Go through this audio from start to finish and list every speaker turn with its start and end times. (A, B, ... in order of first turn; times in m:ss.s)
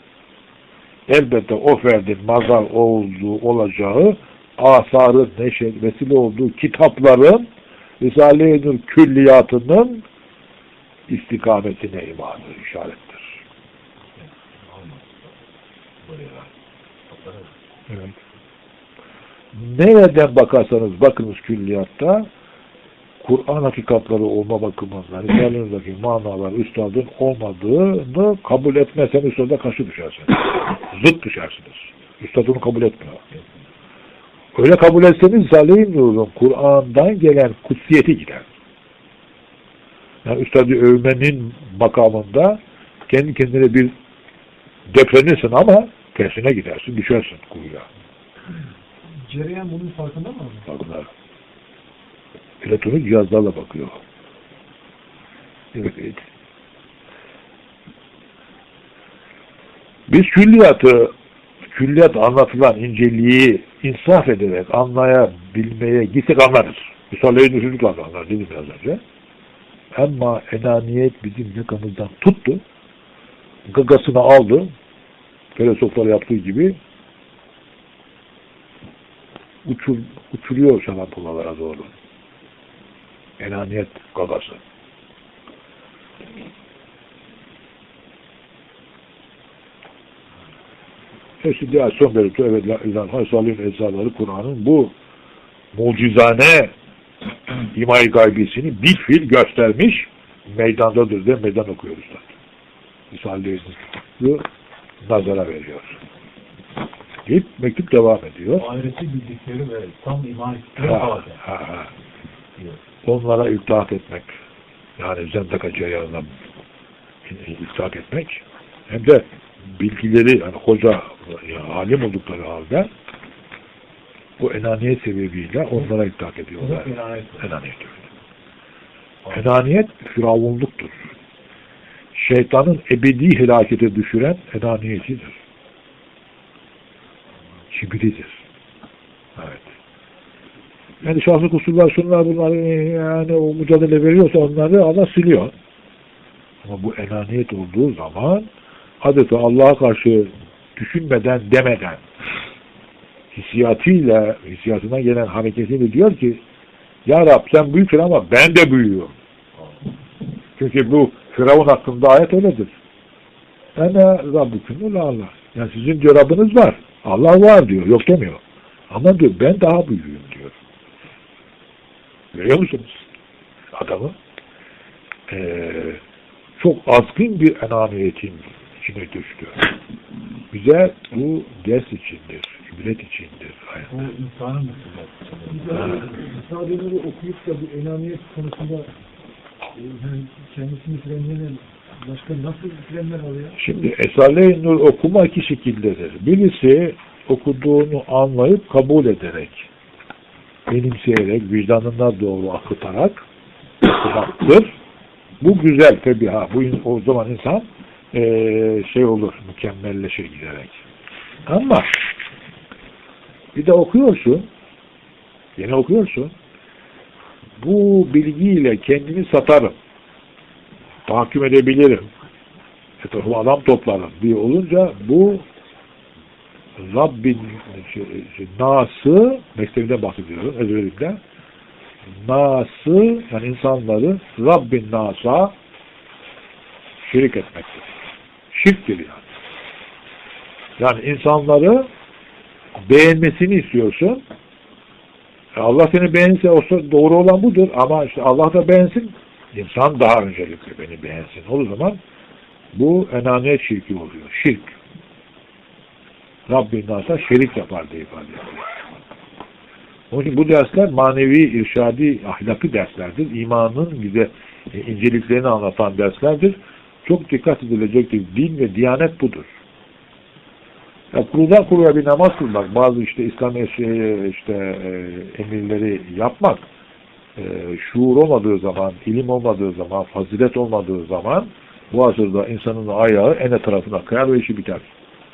0:01.1-0:07.5 A
0:08.0-0:10.0 A
0:11.1-0:13.2 A
0:14.7-0:15.2 B
0:16.0-0:16.5 B
0:17.1-0:17.5 B
0:19.5-0:22.3 A
0:23.2-0:33.2 A
0:34.6-0:38.5 A
0:40.2-0:43.9 A
0:44.9-0:47.9 A
0:49.2-0:50.7 C
0:50.7-0:51.1 A
0:52.6-0:54.0 A
0:55.7-0:56.2 A
1:00.1-1:01.1 A
1:01.7-1:09.0 A
1:09.9-1:12.6 A
1:13.7-1:14.7 A
1:15.6-1:16.8 A
1:19.6-1:21.9 A
1:23.4-1:24.6 A
1:31.4-1:34.9 A
1:35.7-1:36.7 A
1:37.6-1:42.3 A
1:43.1-1:44.4 A
1:45.0-1:46.0 A
1:47.3-1:48.7 A
1:48.6-1:51.4 B
1:50.8-1:51.9 A
1:53.0-1:54.4 A
1:55.0-1:56.4 A
1:57.3-2:02.9 A
2:04.4-2:08.0 A
2:06.6-2:07.4 B
2:09.3-2:11.1 A
2:12.1-2:15.4 A
2:17.7-2:18.4 A
2:19.4-2:19.7 A
2:21.0-2:25.5 A
2:26.6-2:28.5 A
2:29.0-2:32.0 A
2:33.3-2:36.4 A
2:37.1-2:39.2 A
2:40.6-2:42.8 A
2:43.8-2:50.6 A
2:52.3-2:53.0 A
2:53.7-2:54.2 A
2:55.3-2:56.0 A
2:56.6-2:59.7 A
3:00.5-3:04.1 A
3:03.9-3:06.3 B
3:05.6-3:08.9 C
3:05.8-3:06.1 A
3:09.8-3:13.6 C
3:13.6-3:19.7 A
3:20.7-3:23.2 A
3:23.8-3:24.7 A
3:25.4-3:30.8 A
3:31.5-3:32.1 A
3:33.6-3:34.5 A
3:35.6-3:36.3 A
3:37.6-3:39.8 A
3:41.1-3:42.1 A
3:43.0-3:45.4 A
3:46.8-3:51.2 A
3:52.1-3:55.6 A
3:57.0-3:57.9 A
3:58.5-3:59.3 A
4:00.8-4:01.9 A
4:02.8-4:04.2 A
4:05.6-4:12.0 A
4:12.7-4:14.8 A
4:16.5-4:18.8 A
4:20.1-4:29.5 A
4:31.1-4:36.6 A
4:37.4-4:44.9 A